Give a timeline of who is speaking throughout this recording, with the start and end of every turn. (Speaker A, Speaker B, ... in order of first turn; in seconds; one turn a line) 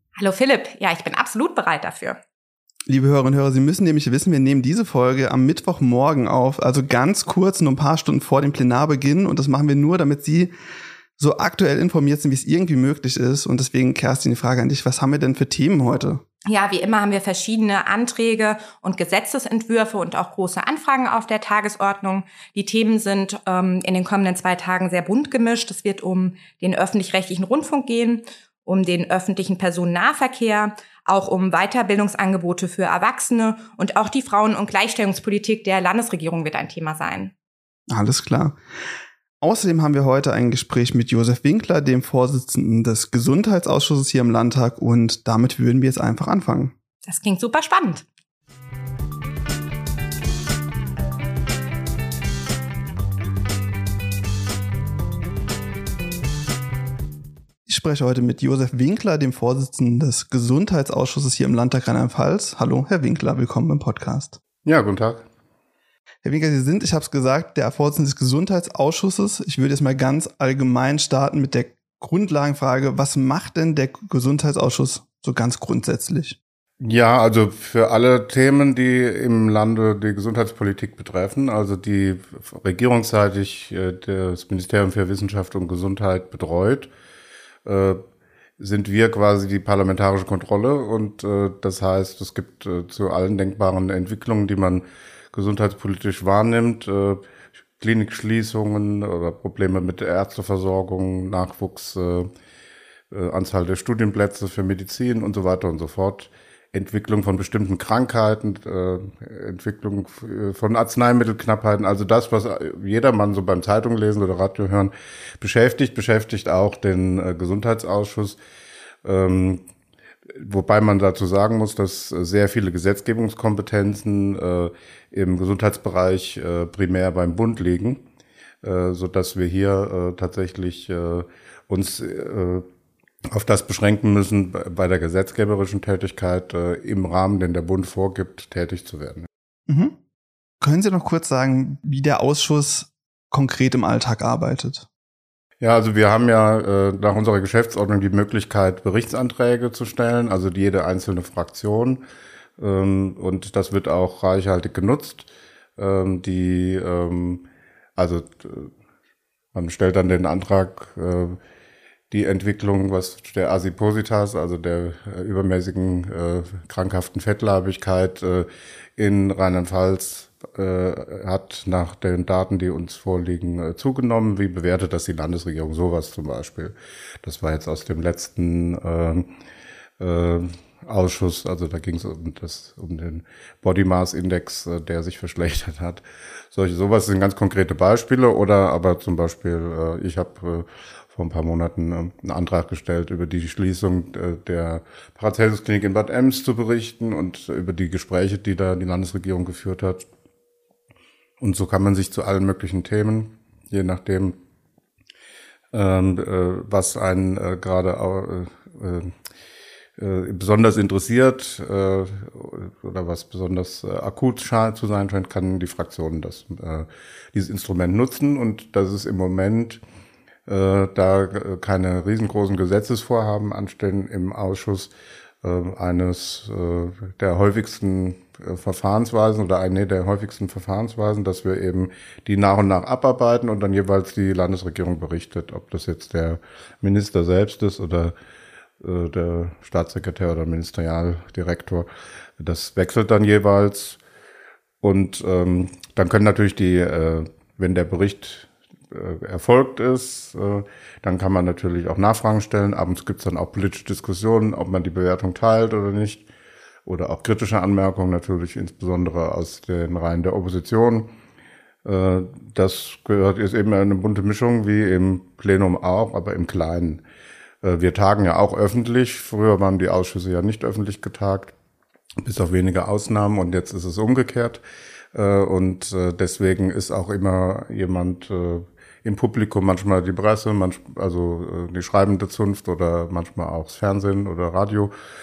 Speaker A: 0.2-2.2
Speaker B: 2.9-10.5
Speaker B: 11.2-16.2
Speaker A: 16.5-37.3
Speaker B: 37.9-38.6
Speaker B: 39.4-46.7
Speaker A: 47.1-48.0
Speaker B: 57.7-64.4
Speaker C: 64.7-65.2
Speaker B: 66.2-76.4
Speaker C: 76.8-86.9
Speaker C: 87.7-88.0
Speaker C: 88.6-97.2
Speaker C: 97.8-102.3
Speaker C: 103.1-118.4
Speaker C: 119.0-119.6
Speaker C: 120.3-128.0
Speaker C: 128.6-132.7
Speaker C: 133.3-139.3
Speaker B: 139.7-140.0
Speaker B: 140.6-144.9
Speaker C: 145.6-152.0
Speaker C: 152.6-157.4
Speaker C: 158.0-158.7
Speaker C: 159.5-161.4
Speaker C: 162.1-179.3
Speaker C: 180.0-200.1
Speaker C: 201.4-204.4
Speaker C: 205.7-209.1
Speaker C: 210.0-219.8
Speaker C: 220.5-224.9
Speaker C: 225.4-238.1
Speaker C: 238.8-241.9
Speaker C: 242.4-244.0
Speaker C: 244.8-256.2
Speaker C: 256.9-261.1
Speaker C: 261.8-267.0
Speaker C: 267.6-271.5
Speaker C: 272.2-274.6
Speaker C: 275.1-284.9